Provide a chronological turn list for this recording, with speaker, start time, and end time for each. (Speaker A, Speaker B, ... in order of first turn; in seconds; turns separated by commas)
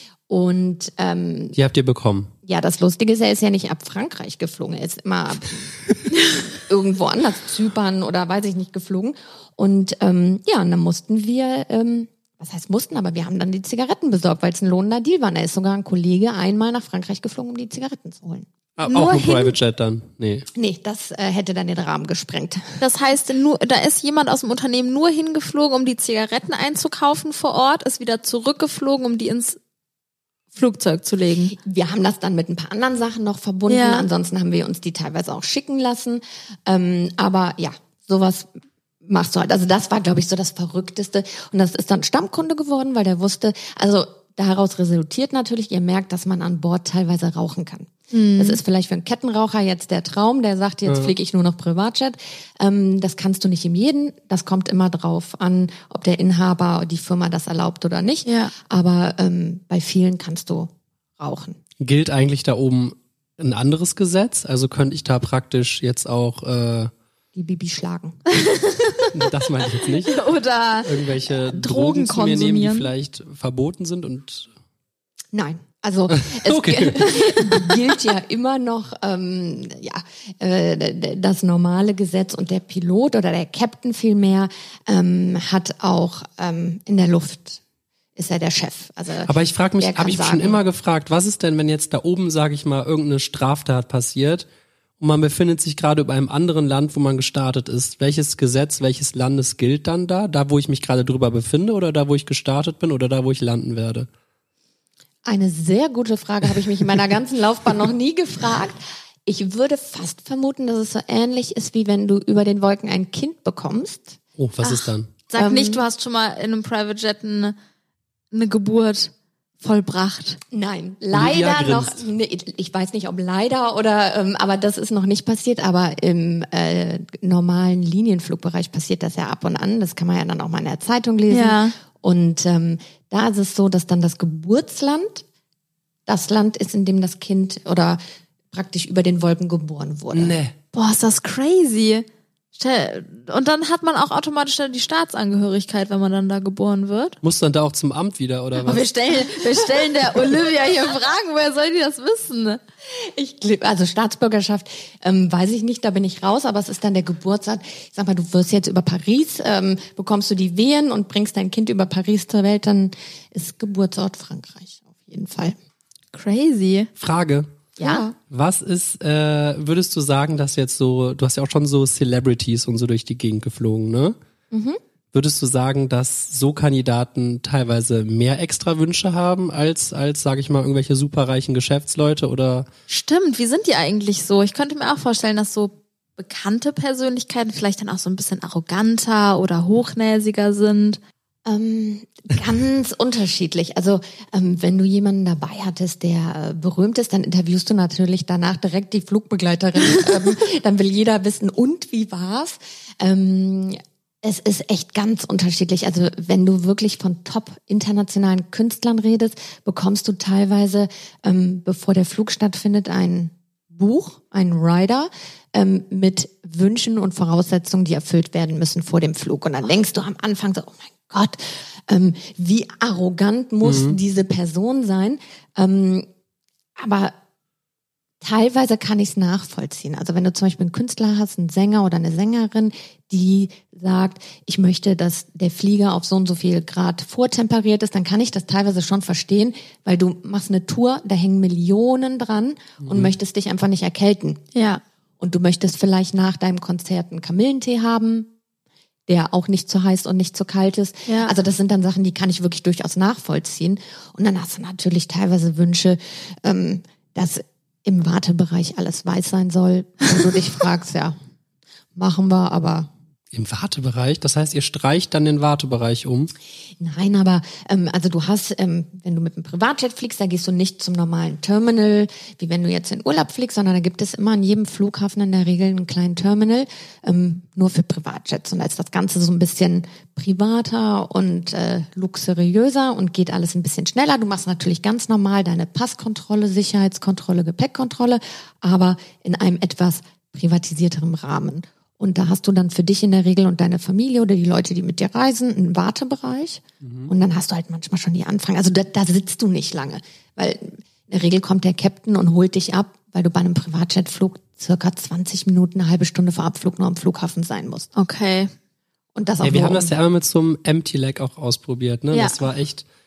Speaker A: 0.3-1.6, Speaker B: 1.6-2.3, Speaker A: 2.4-18.5, Speaker B: 18.8-20.5, Speaker C: 18.8-19.6, Speaker A: 20.5-22.8, Speaker C: 22.8-29.6, Speaker C: 30.5-31.5, Speaker A: 31.5-38.5, Speaker C: 33.7-34.0, Speaker A: 39.0-61.6, Speaker C: 48.1-48.6, Speaker B: 50.9-51.1, Speaker C: 58.2-58.5, Speaker B: 61.8-66.9, Speaker A: 67.3-68.2, Speaker C: 68.3-69.1, Speaker B: 69.1-70.2, Speaker C: 69.9-72.9, Speaker B: 70.8-74.5, Speaker A: 75.3-87.6, Speaker B: 76.1-77.6, Speaker A: 88.2-90.6, Speaker B: 89.2-94.5, Speaker B: 95.0-104.1, Speaker A: 105.2-114.2, Speaker B: 114.4-115.1, Speaker C: 114.6-117.5, Speaker A: 115.3-115.8, Speaker C: 118.3-120.4, Speaker A: 120.5-135.2, Speaker B: 121.1-122.0, Speaker C: 131.3-131.7, Speaker A: 136.1-138.0, Speaker A: 138.5-140.3, Speaker B: 140.1-140.5, Speaker C: 140.7-147.2, Speaker B: 147.2-148.8, Speaker C: 148.6-152.6, Speaker A: 153.0-165.6, Speaker C: 166.1-166.9, Speaker B: 167.0-167.5, Speaker A: 167.8-168.1, Speaker C: 167.8-168.0, Speaker B: 168.3-174.2, Speaker A: 174.5-174.8, Speaker B: 175.1-182.7, Speaker C: 182.9-191.0, Speaker A: 191.4-226.1, Speaker B: 223.6-224.0, Speaker A: 226.8-227.1, Speaker A: 228.2-244.4, Speaker B: 242.8-243.1, Speaker C: 244.5-244.8, Speaker A: 245.2-248.3, Speaker A: 249.1-261.1, Speaker C: 251.1-251.3, Speaker A: 261.9-262.9, Speaker B: 263.3-266.3, Speaker A: 266.8-307.9, Speaker B: 296.8-297.1, Speaker C: 307.9-308.5, Speaker A: 309.1-309.9, Speaker B: 309.4-312.8, Speaker C: 312.1-312.4